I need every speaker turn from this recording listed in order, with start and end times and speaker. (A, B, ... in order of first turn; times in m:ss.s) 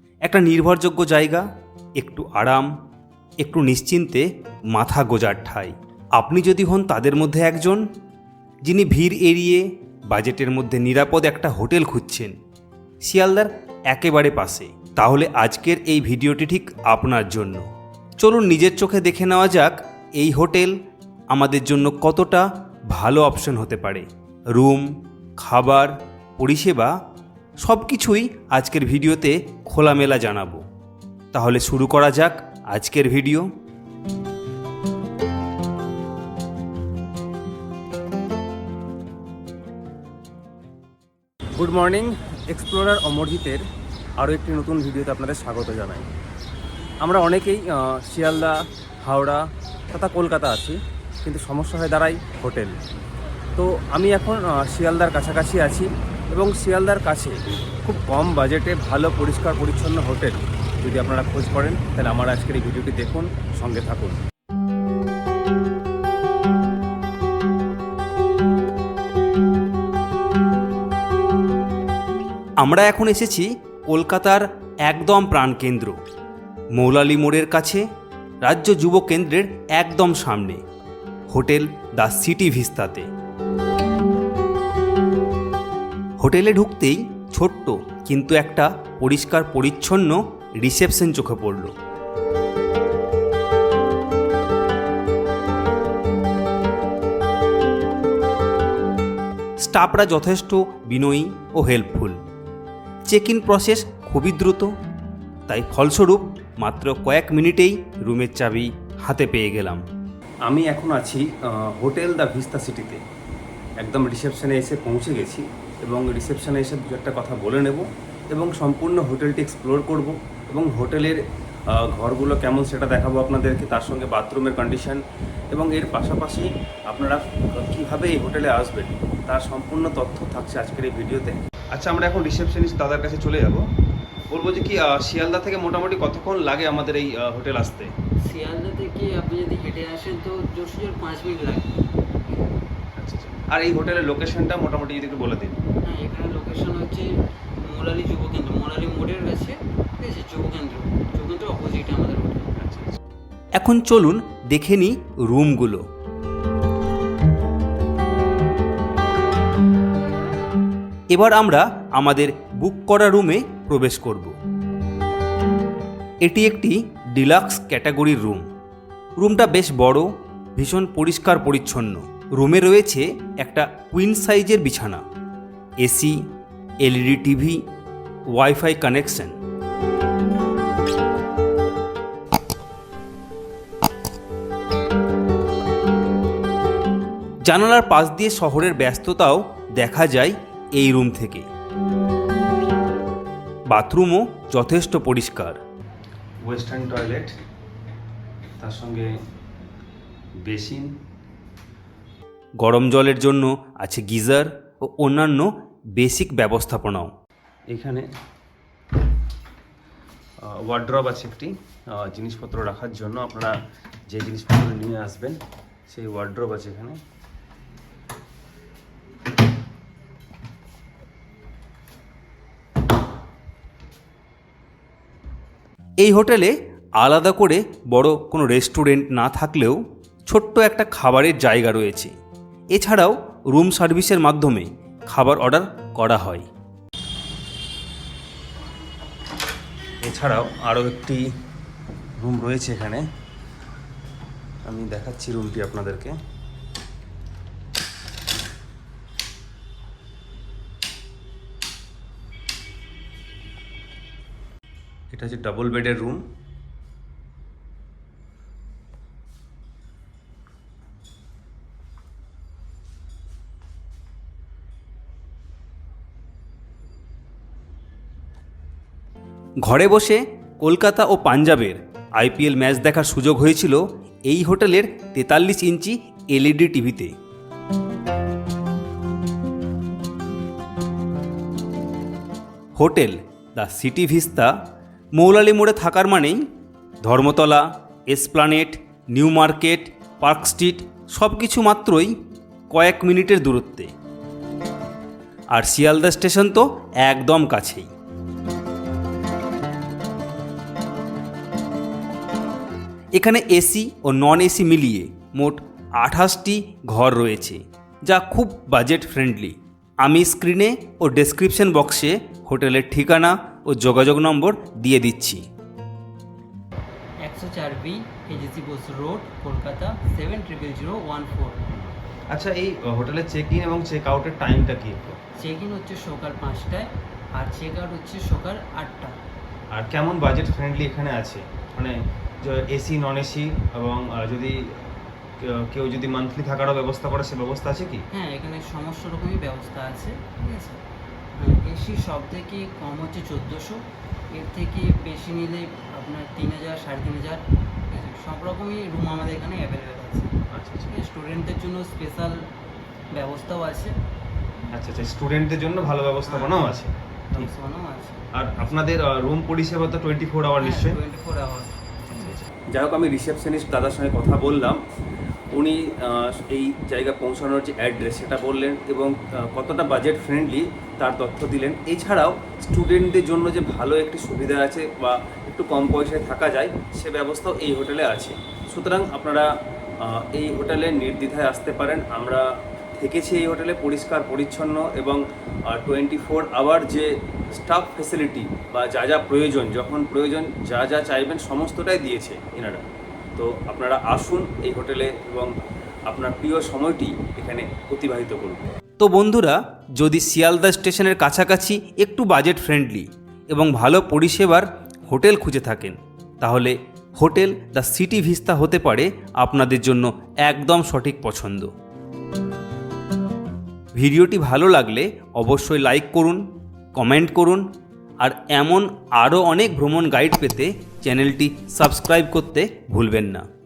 0:00.2-0:01.4 A
0:02.0-0:02.7 A
0:03.4-0:07.8 A
0:08.6-0:12.3 A
0:13.0-0:17.6 A
0:18.2-0:20.8 A
0:21.3-0:26.9 A
0:27.6-0:30.6 A
0:31.3-0:33.5 A
0:41.6-0:43.6 B
0:44.2-0:46.1 B
0:47.0-0:52.8 B
0:53.6-1:04.2 B
1:12.6-1:16.0 A
1:16.7-1:17.8 A
1:18.4-1:20.6 A
1:21.3-1:23.1 A
1:26.2-1:31.7 A
1:39.6-1:42.2 A
1:43.1-1:44.7 A
1:45.5-1:49.8 A
1:50.4-1:53.0 B
1:53.8-2:05.0 B
2:05.5-2:13.6 B
2:14.3-2:17.9 B
2:18.2-2:21.8 C
2:23.0-2:25.6 B
2:25.8-2:27.1 C
2:27.6-2:32.5 C
2:32.6-2:33.0 B
2:33.6-2:35.8 A
2:41.1-2:44.4 A
2:46.2-2:48.5 A
2:49.2-2:55.0 A
2:55.8-2:56.2 A
2:56.8-2:57.6 A
2:58.3-2:59.4 A
3:07.4-3:11.4 A
3:13.7-3:15.6 A
3:16.4-3:17.3 B
3:18.6-3:19.1 B
3:20.4-3:20.9 B
3:22.6-3:27.1 A
3:27.7-3:28.1 B
3:30.4-3:33.5 B
3:34.1-3:37.0 B
3:46.0-3:52.1 A
3:52.7-3:56.4 A
4:00.0-4:01.2 B
4:02.2-4:03.0 B
4:04.6-4:06.2 B
4:15.1-4:16.2 B
4:29.6-4:37.1 A
4:42.8-4:44.5 A
4:45.1-4:46.4 A
4:47.0-4:52.1 A
4:52.7-4:53.9 A
4:55.5-4:57.9 A
5:03.1-5:15.4 A
5:17.2-5:21.6 C
5:21.7-5:25.2 B
5:25.4-5:29.2 C
5:29.7-5:34.9 B
5:35.4-5:38.0 B
5:38.1-5:40.8 C
5:41.4-5:52.4 C
5:50.5-5:50.9 B
5:53.1-5:54.0 C
5:54.7-5:57.5 B
5:56.2-5:56.7 C
5:57.3-5:58.3 C
5:58.3-6:01.0 B
6:00.6-6:02.3 C
6:02.1-6:04.8 B
6:05.5-6:32.8 B
6:33.4-6:35.5 B
6:36.1-6:38.7 B
6:39.0-6:51.7 A
6:53.9-6:57.6 A
6:58.2-7:03.4 A